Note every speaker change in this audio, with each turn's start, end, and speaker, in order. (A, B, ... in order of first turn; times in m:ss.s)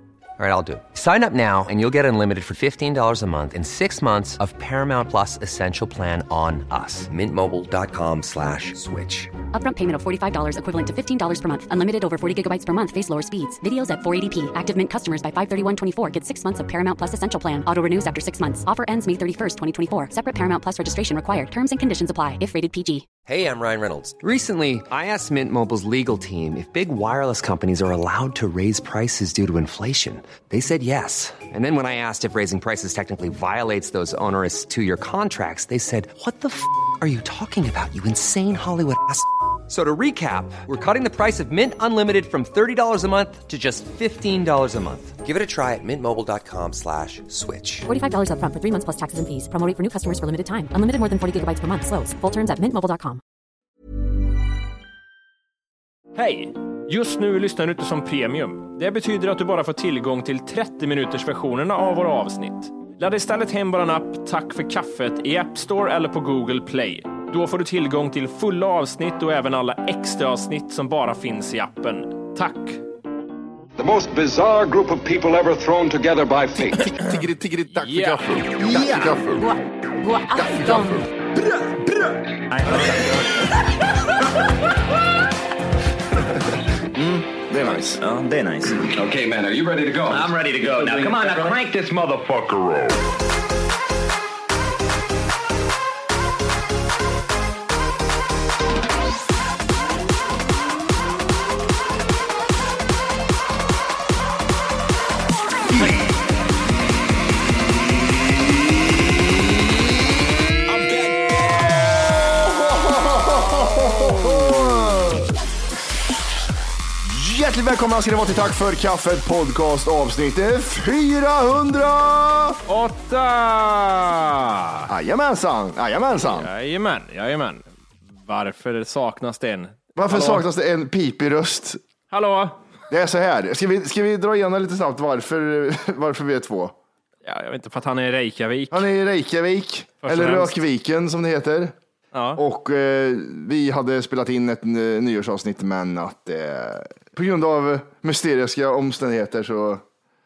0:00.4-0:09.3 A
0:09.5-0:23.1 B
0:23.2-0:47.9 A
0:47.8-0:53.2 B
0:56.2-1:12.8 C
1:13.8-1:16.9 D
1:17.0-1:19.5 E
1:17.7-1:18.3 C
1:17.9-1:19.4 F
1:20.3-1:21.0 E
1:26.9-1:28.0 E
1:27.6-1:28.9 F
1:28.9-1:33.1 D
1:30.1-1:31.6 F
1:45.7-1:46.0 E
1:51.8-1:55.3 E
1:54.0-1:55.2 C
1:57.0-2:02.6 E
2:02.7-2:04.9 C
2:04.9-2:06.5 E
2:06.2-2:07.6 C
2:08.2-2:10.4 C
2:10.0-2:11.8 E
2:12.1-2:12.6 C
2:12.9-2:16.7 E
2:17.2-2:18.8 C
2:18.7-2:21.8 E
2:20.0-2:20.6 C
2:22.1-2:22.4 C
2:22.4-2:29.8 E